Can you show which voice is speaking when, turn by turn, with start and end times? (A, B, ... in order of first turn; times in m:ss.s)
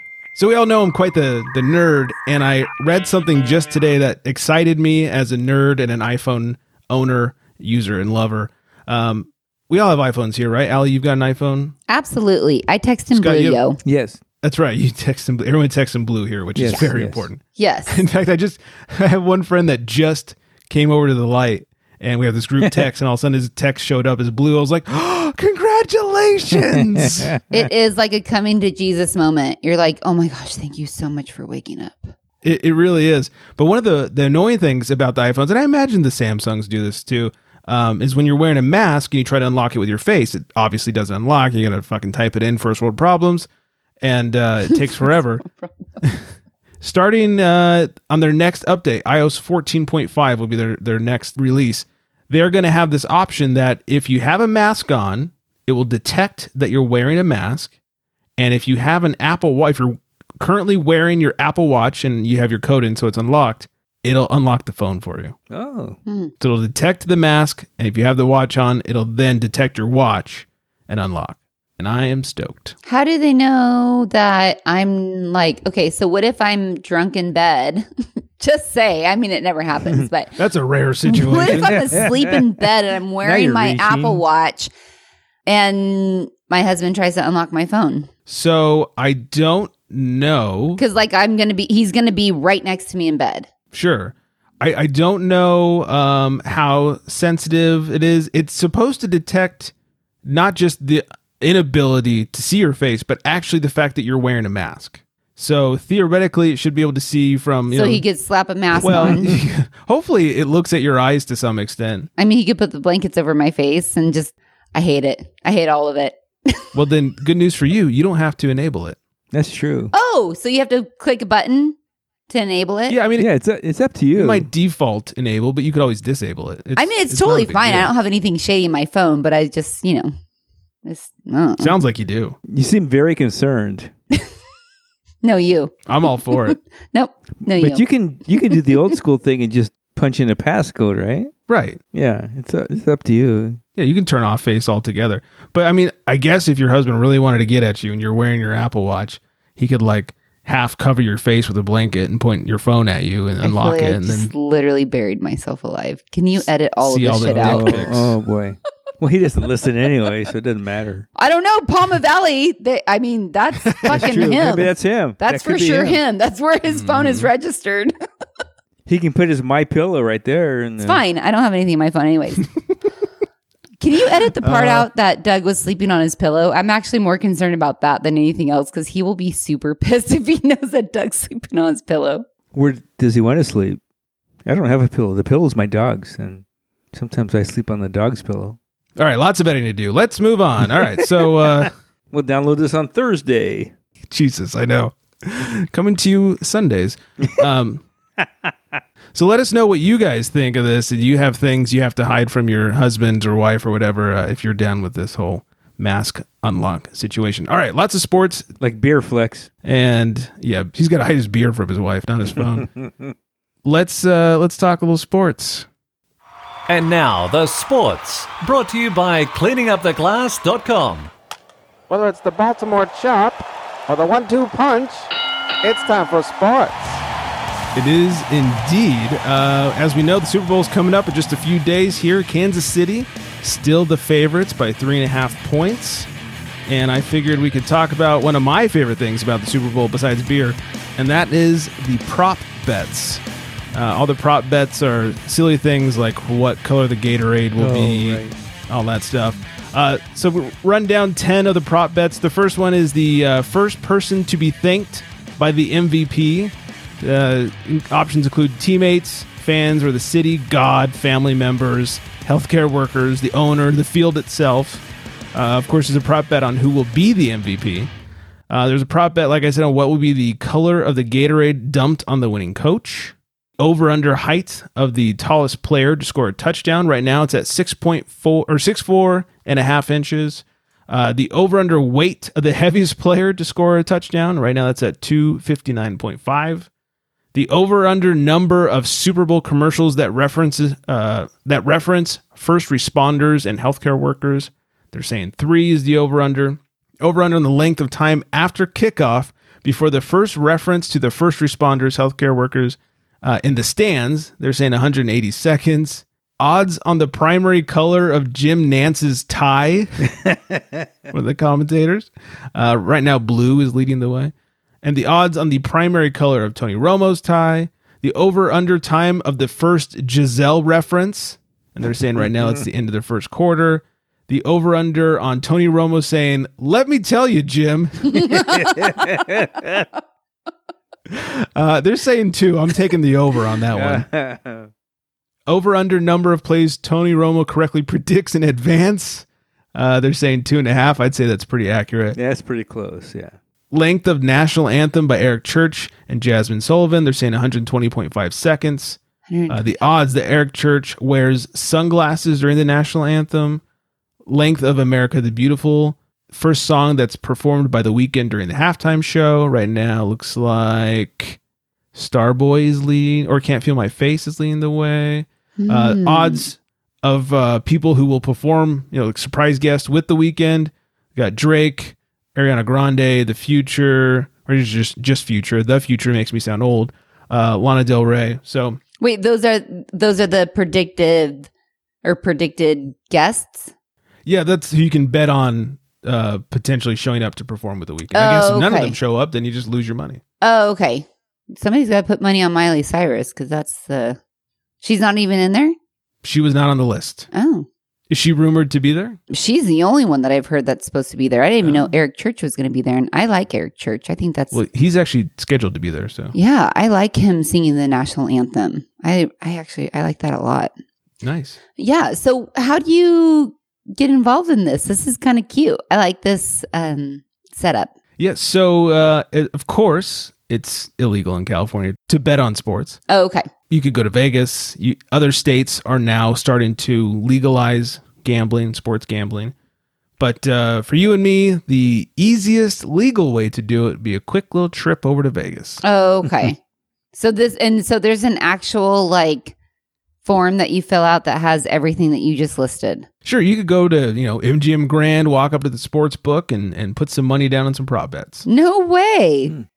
0:00.4-0:11.8 A
0:11.9-0:13.8 B
0:13.1-0:13.6 A
0:13.8-0:14.2 C
0:14.4-0:27.3 A
0:16.6-0:17.3 C
0:17.6-0:18.0 B
0:26.7-0:27.4 C
0:27.5-0:32.1 B
0:32.4-0:43.5 A
0:44.0-0:45.4 A
0:46.8-0:57.7 A
0:58.4-1:05.4 A
1:05.5-1:06.0 C
1:06.1-1:06.3 B
1:06.4-1:12.8 A
1:12.9-1:17.9 B
1:18.4-1:20.4 B
1:20.4-1:21.9 A
1:21.1-1:24.7 B
1:21.5-1:22.4 C
1:23.2-1:24.2 C
1:25.5-1:28.1 B
1:28.3-1:30.8 A
1:30.8-1:33.5 B
1:33.7-1:39.7 A
1:40.2-1:48.0 A
1:47.7-1:49.3 B
1:48.8-1:52.1 A
1:52.2-1:56.6 B
1:56.7-1:59.0 A
1:59.3-1:59.9 C
1:59.9-2:01.8 B
2:02.3-2:03.0 B
2:02.9-2:03.3 A
2:03.2-2:04.5 C
2:04.1-2:07.9 A
2:06.8-2:10.1 B
2:10.8-2:11.8 B
2:11.6-2:12.4 A
2:12.5-2:13.9 C
2:15.2-2:15.8 B
2:15.9-2:16.6 A
2:16.3-2:18.8 B
2:17.5-2:21.3 C
2:21.5-2:21.8 A
2:21.9-2:23.6 C
2:23.8-2:34.3 A
2:33.4-2:37.9 B
2:36.8-2:38.1 A
2:37.3-2:41.1 C
2:41.2-2:47.9 B
2:43.8-2:44.2 A
2:43.9-2:46.0 C
2:46.7-2:47.3 A
2:48.9-2:51.0 C
2:50.8-2:52.5 B
2:53.8-3:02.2 B
2:54.5-2:54.8 A
3:02.5-3:03.8 C
3:04.5-3:08.6 C
3:09.0-3:11.7 A
3:12.1-3:13.7 C
3:14.1-3:17.8 A
3:19.1-3:28.5 A
3:28.6-3:29.5 C
3:29.6-3:32.7 A
3:33.6-3:35.7 A
3:36.7-3:41.1 D
3:41.9-3:45.1 E
3:45.6-3:47.0 E
3:47.8-3:56.1 A
3:56.7-4:03.2 A
4:03.7-4:27.9 A
4:07.6-4:08.4 C
4:28.5-4:46.7 A
4:47.3-5:10.1 A
5:10.3-5:10.6 C
5:11.1-5:28.4 A
5:28.2-5:28.8 B
5:28.2-5:29.9 C
5:31.1-5:34.1 A
5:33.7-5:34.7 C
5:35.5-5:42.2 A
5:42.2-5:43.4 C
5:43.7-5:53.6 A
5:49.3-5:49.8 B
5:54.3-6:01.4 A
6:01.9-6:18.8 A
6:05.6-6:06.5 B
6:19.0-6:21.5 B
6:22.0-6:23.7 B
6:24.3-6:30.2 A
6:28.1-6:29.0 B
6:30.4-6:34.2 B
6:34.8-6:35.8 B
6:36.2-6:37.3 A
6:37.3-6:37.7 B
6:38.1-6:39.2 A
6:39.3-6:44.6 B
6:41.6-6:41.9 A
6:44.5-6:46.3 A
6:46.3-6:50.7 B
6:51.2-6:51.6 A
6:51.8-6:57.9 B
6:58.2-7:03.0 A
7:03.1-7:03.5 B
7:03.7-7:09.5 A
7:10.2-7:15.8 A
7:15.8-7:16.6 B
7:17.1-7:19.6 B
7:20.2-7:23.1 B
7:23.2-7:28.5 A
7:28.5-7:29.6 B